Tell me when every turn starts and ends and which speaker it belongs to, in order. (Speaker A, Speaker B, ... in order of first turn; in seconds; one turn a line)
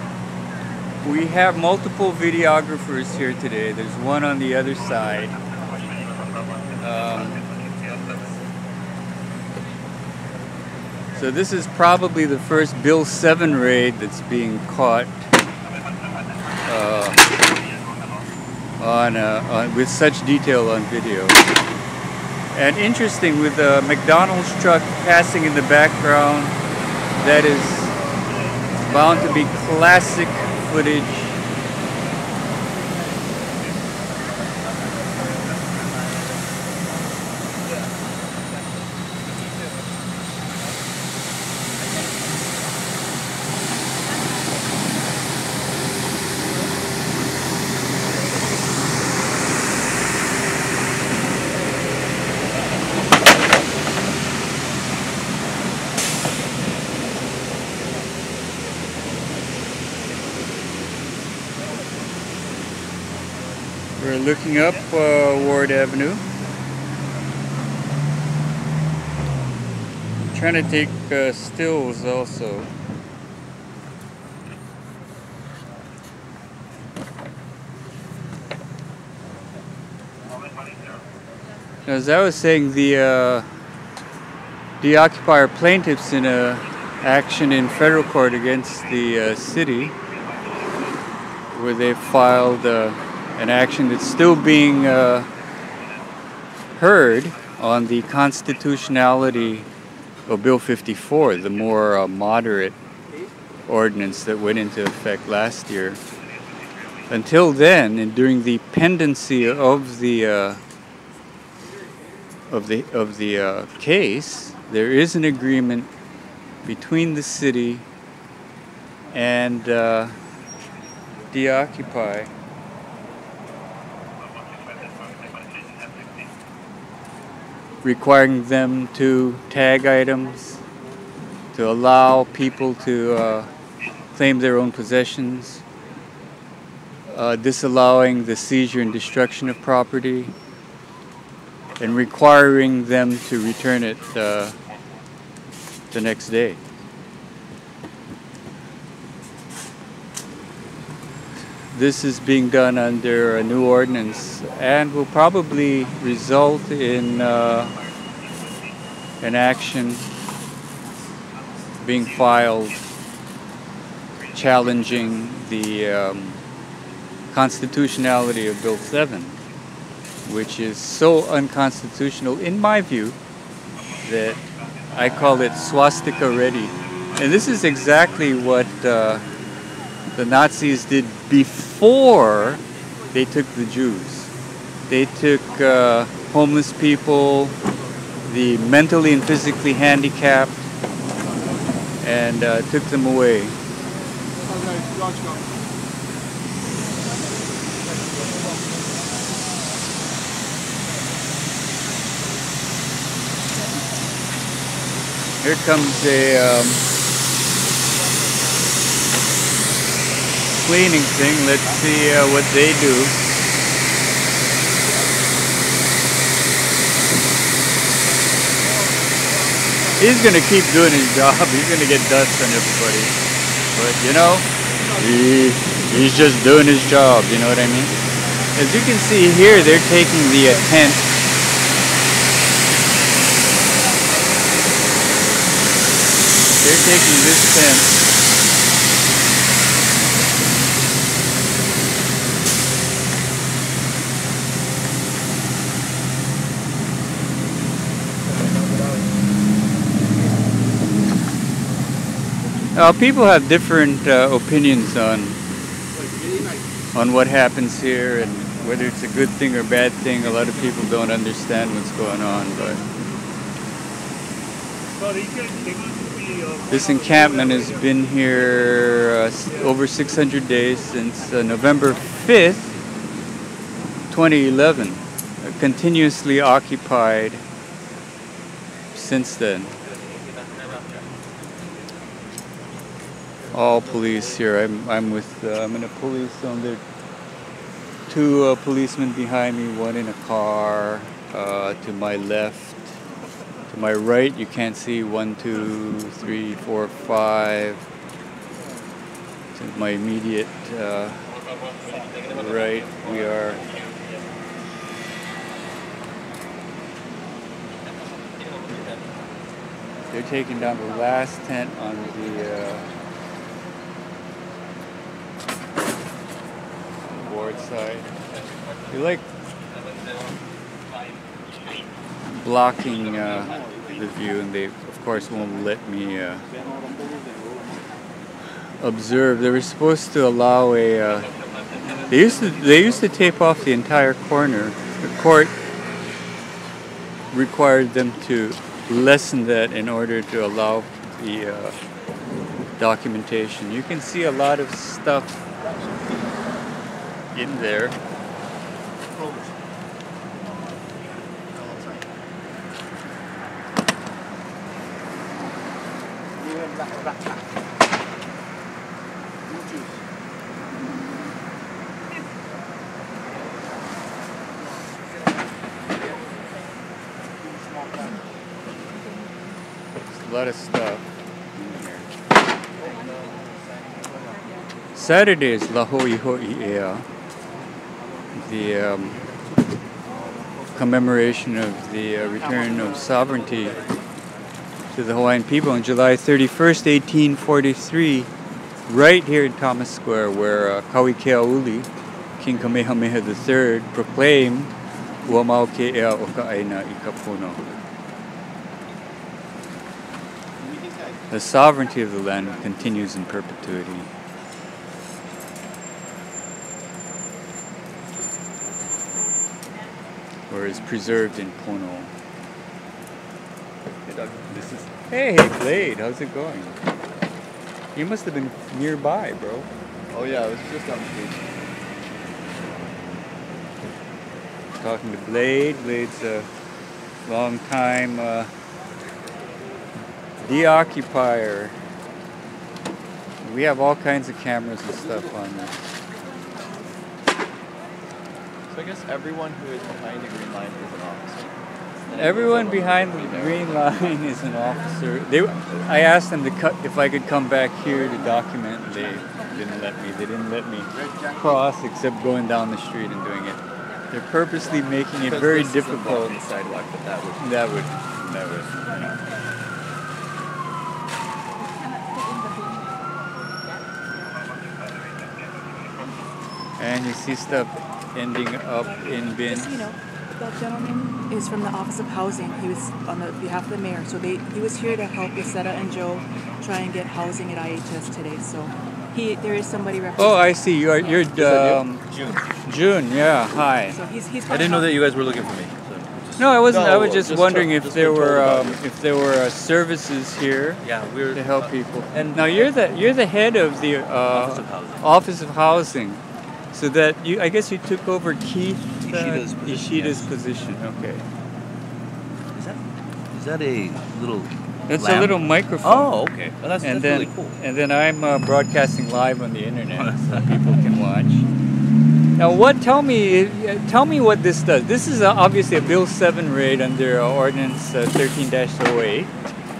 Speaker A: 1.0-5.3
Speaker A: 6.8-7.4
Speaker A: 11.2-15.3
Speaker A: 16.7-17.2
Speaker A: 18.8-21.4
Speaker A: 22.5-26.6
Speaker A: 27.2-27.9
Speaker A: 28.9-31.3
Speaker A: 64.0-66.2
Speaker A: 70.3-72.7
Speaker A: 81.9-83.5
Speaker A: 84.8-90.0
Speaker A: 91.5-95.3
Speaker A: 96.8-99.7
Speaker A: 100.3-102.8
Speaker A: 103.7-106.0
Speaker A: 107.1-110.6
Speaker A: 112.5-115.9
Speaker A: 116.7-117.9
Speaker A: 119.1-120.2
Speaker A: 121.3-122.3
Speaker A: 127.8-130.6
Speaker A: 131.5-133.5
Speaker A: 134.2-135.6
Speaker A: 137.1-140.3
Speaker A: 141.8-144.6
Speaker A: 145.9-146.6
Speaker A: 151.7-157.8
Speaker A: 159.2-160.1
Speaker A: 161.8-162.8
Speaker A: 164.3-166.4
Speaker A: 167.3-169.4
Speaker A: 170.2-173.2
Speaker A: 174.1-179.2
Speaker A: 180.2-182.6
Speaker A: 183.1-184.3
Speaker A: 184.9-187.6
Speaker A: 188.3-190.6
Speaker A: 192.0-193.6
Speaker A: 205.4-206.8
Speaker A: 210.6-213.2
Speaker A: 220.0-223.2
Speaker A: 223.8-227.9
Speaker A: 228.6-231.0
Speaker A: 236.6-238.0
Speaker A: 252.8-255.4
Speaker A: 256.9-262.8
Speaker A: 266.7-272.8
Speaker A: 274.1-277.4
Speaker A: 278.9-279.7
Speaker A: 283.5-286.8
Speaker A: 288.1-292.8
Speaker A: 293.7-297.9
Speaker A: 299.6-301.2
Speaker A: 302.3-303.6
Speaker A: 310.1-312.9
Speaker A: 317.2-318.1
Speaker A: 318.9-319.2
Speaker A: 322.3-326.4
Speaker A: 328.8-331.3
Speaker A: 332.1-335.6
Speaker A: 337.3-341.8
Speaker A: 342.8-345.4
Speaker A: 347.3-348.0
Speaker A: 370.1-371.1
Speaker A: 371.6-372.0
Speaker A: 374.9-377.1
Speaker A: 378.4-379.2
Speaker A: 380.7-383.8
Speaker A: 384.9-388.3
Speaker A: 388.9-394.7
Speaker A: 395.2-397.6
Speaker A: 401.3-404.1
Speaker A: 410.5-412.1
Speaker B: 414.1-414.4
Speaker A: 414.5-416.8
Speaker A: 417.9-419.7
Speaker B: 420.1-421.4
Speaker A: 424.8-426.5
Speaker A: 427.3-428.5
Speaker A: 430.4-431.7
Speaker A: 433.4-435.8
Speaker B: 438.7-441.5
Speaker B: 442.1-443.9
Speaker A: 442.1-456.4
Speaker B: 455.1-457.6
Speaker A: 457.4-457.9
Speaker B: 458.2-458.7
Speaker A: 466.8-469.9
Speaker C: 468.8-480.5
Speaker A: 480.2-482.0
Speaker D: 481.4-481.7
Speaker B: 481.5-482.3
Speaker A: 482.6-484.0
Speaker C: 483.9-485.1
Speaker D: 484.5-486.5
Speaker A: 486.4-490.8
Speaker B: 486.7-488.8
Speaker D: 490.8-491.6
Speaker A: 491.3-496.2
Speaker D: 492.1-492.7
Speaker D: 494.3-495.1
Speaker A: 496.7-501.2
Speaker D: 499.0-500.3
Speaker D: 502.5-507.6
Speaker A: 504.9-506.3
Speaker A: 506.8-511.4
Speaker D: 509.9-510.5
Speaker A: 512.4-519.3